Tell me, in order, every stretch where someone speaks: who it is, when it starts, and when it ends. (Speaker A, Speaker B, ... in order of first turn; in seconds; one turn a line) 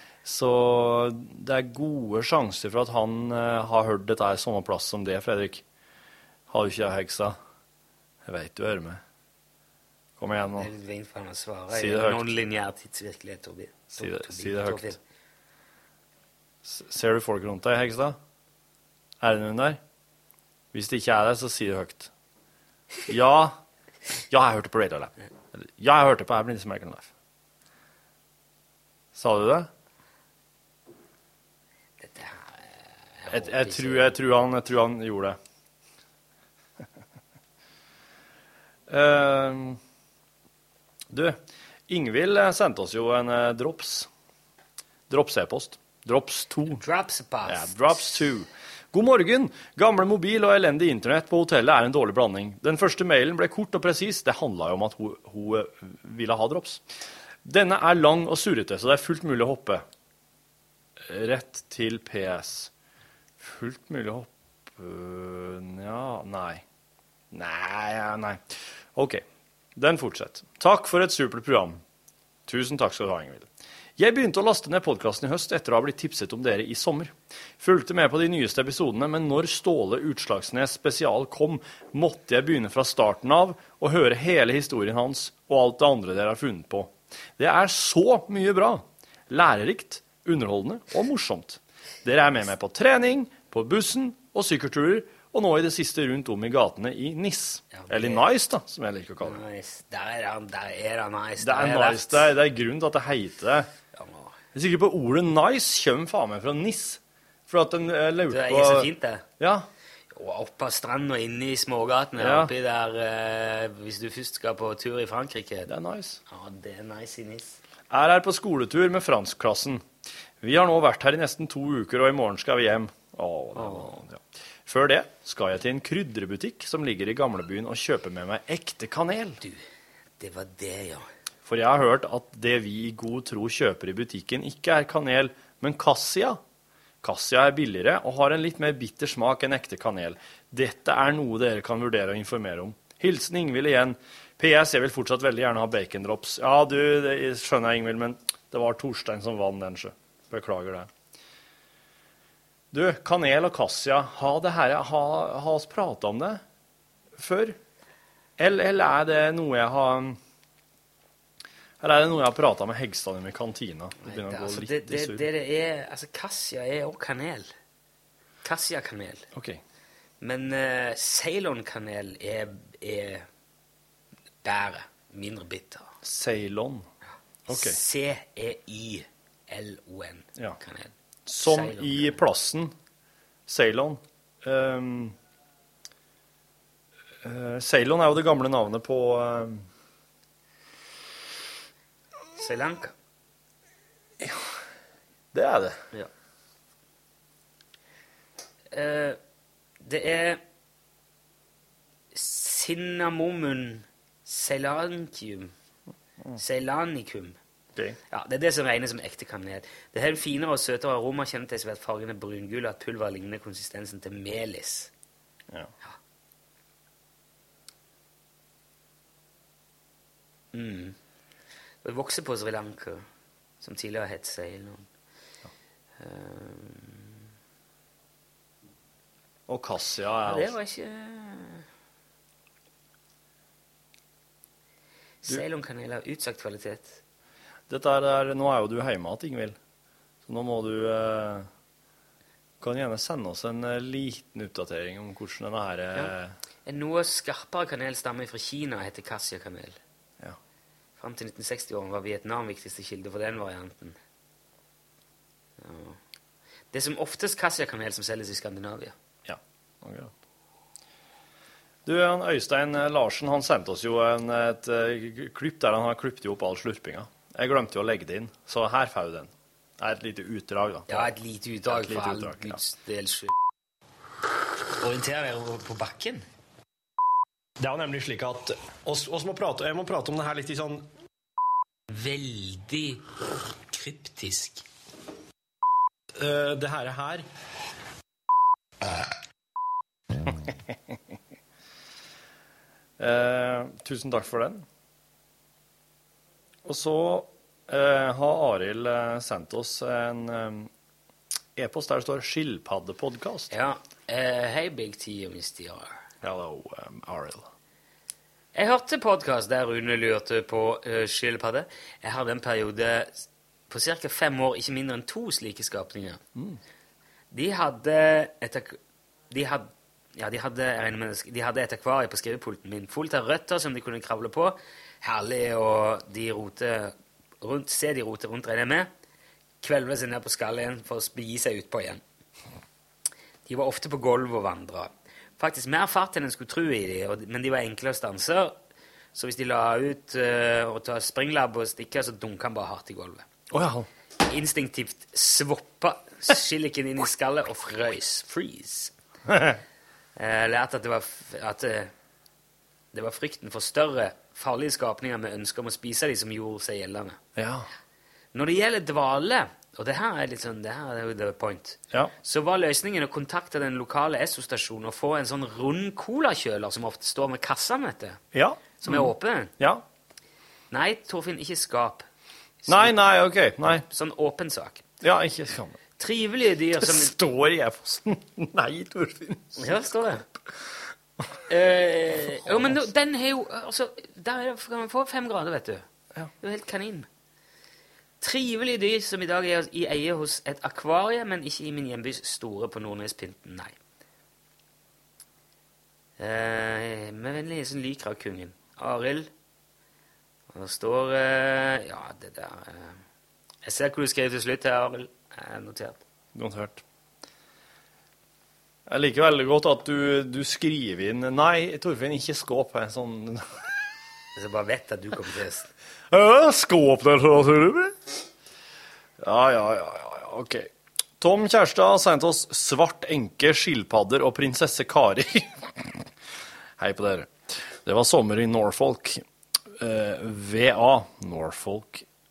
Speaker A: 0.2-5.6
Speaker A: 6.5-7.4
Speaker A: 8.2-9.0
Speaker A: 10.2-10.7
Speaker B: 10.6-15.0
Speaker A: 11.7-12.2
Speaker A: 13.9-15.0
Speaker A: 16.6-18.2
Speaker A: 19.2-19.8
Speaker A: 20.7-22.1
Speaker A: 23.1-23.6
Speaker A: 24.3-27.1
Speaker A: 29.1-29.7
Speaker B: 32.0-34.2
Speaker A: 33.3-35.4
Speaker A: 38.9-39.8
Speaker A: 41.1-44.1
Speaker A: 45.1-46.8
Speaker B: 46.7-48.0
Speaker A: 47.5-56.8
Speaker A: 57.4-59.9
Speaker A: 61.0-62.7
Speaker A: 63.4-66.6
Speaker A: 67.3-69.2
Speaker A: 69.8-71.8
Speaker A: 72.5-99.4
Speaker B: 97.7-98.3
Speaker B: 99.2-102.3
Speaker A: 101.4-103.7
Speaker B: 103.9-104.3
Speaker A: 104.5-109.7
Speaker B: 108.3-109.3
Speaker B: 110.1-115.7
Speaker A: 112.2-112.5
Speaker A: 115.7-116.2
Speaker B: 116.3-117.6
Speaker A: 117.9-119.8
Speaker A: 120.4-129.4
Speaker B: 123.5-124.0
Speaker B: 130.2-131.1
Speaker A: 131.4-136.4
Speaker A: 137.0-150.9
Speaker A: 152.7-156.4
Speaker A: 157.2-157.6
Speaker A: 158.4-160.2
Speaker A: 161.8-165.3
Speaker B: 164.0-167.5
Speaker B: 168.4-169.3
Speaker A: 169.3-169.6
Speaker B: 170.2-173.3
Speaker B: 174.4-175.9
Speaker A: 176.0-176.9
Speaker A: 177.5-177.8
Speaker B: 177.5-182.2
Speaker A: 181.3-182.7
Speaker A: 183.5-185.1
Speaker A: 187.2-189.7
Speaker B: 192.4-192.9
Speaker A: 195.3-195.8
Speaker B: 198.7-199.2
Speaker B: 199.8-200.4
Speaker B: 202.1-205.5
Speaker B: 206.4-207.4
Speaker B: 208.1-214.9
Speaker B: 220.5-221.0
Speaker B: 221.8-223.1
Speaker B: 223.6-224.9
Speaker B: 226.0-227.2
Speaker A: 229.5-230.6
Speaker B: 230.3-231.7
Speaker B: 235.2-237.0
Speaker A: 237.7-239.6
Speaker A: 240.3-241.5
Speaker A: 242.6-246.3
Speaker B: 246.7-249.8
Speaker B: 251.0-254.0
Speaker B: 255.6-256.0
Speaker B: 256.7-258.9
Speaker A: 259.2-260.1
Speaker A: 261.9-271.1
Speaker B: 270.9-273.4
Speaker A: 271.7-272.6
Speaker B: 274.8-276.2
Speaker A: 277.6-280.9
Speaker B: 281.9-283.1
Speaker B: 283.7-284.6
Speaker A: 286.2-287.3
Speaker A: 290.2-290.5
Speaker A: 293.0-294.6
Speaker A: 296.6-300.7
Speaker A: 301.6-303.5
Speaker B: 303.5-306.0
Speaker A: 306.2-307.5
Speaker B: 308.6-316.2
Speaker B: 317.3-318.8
Speaker B: 319.3-328.9
Speaker B: 329.6-332.0
Speaker B: 333.5-338.6
Speaker B: 339.1-343.3
Speaker A: 343.5-343.9
Speaker B: 344.2-348.9
Speaker A: 349.3-349.6
Speaker B: 350.2-351.9
Speaker B: 352.9-357.2
Speaker A: 357.4-357.7
Speaker B: 358.3-368.2
Speaker A: 368.3-369.8
Speaker B: 368.8-369.5
Speaker B: 370.7-372.1
Speaker B: 372.6-372.9
Speaker A: 372.7-373.9
Speaker B: 373.7-374.8
Speaker A: 375.0-375.8
Speaker B: 376.0-377.1
Speaker A: 376.8-379.8
Speaker B: 379.6-380.2
Speaker B: 381.5-385.9
Speaker A: 382.4-382.8
Speaker B: 386.4-387.1
Speaker B: 388.2-393.8
Speaker B: 396.2-399.3
Speaker B: 400.5-403.0
Speaker B: 403.6-406.0
Speaker A: 406.4-406.8
Speaker A: 408.9-413.5
Speaker B: 414.4-415.7
Speaker A: 416.1-418.0
Speaker A: 419.2-426.1
Speaker A: 426.8-429.2
Speaker A: 429.8-432.1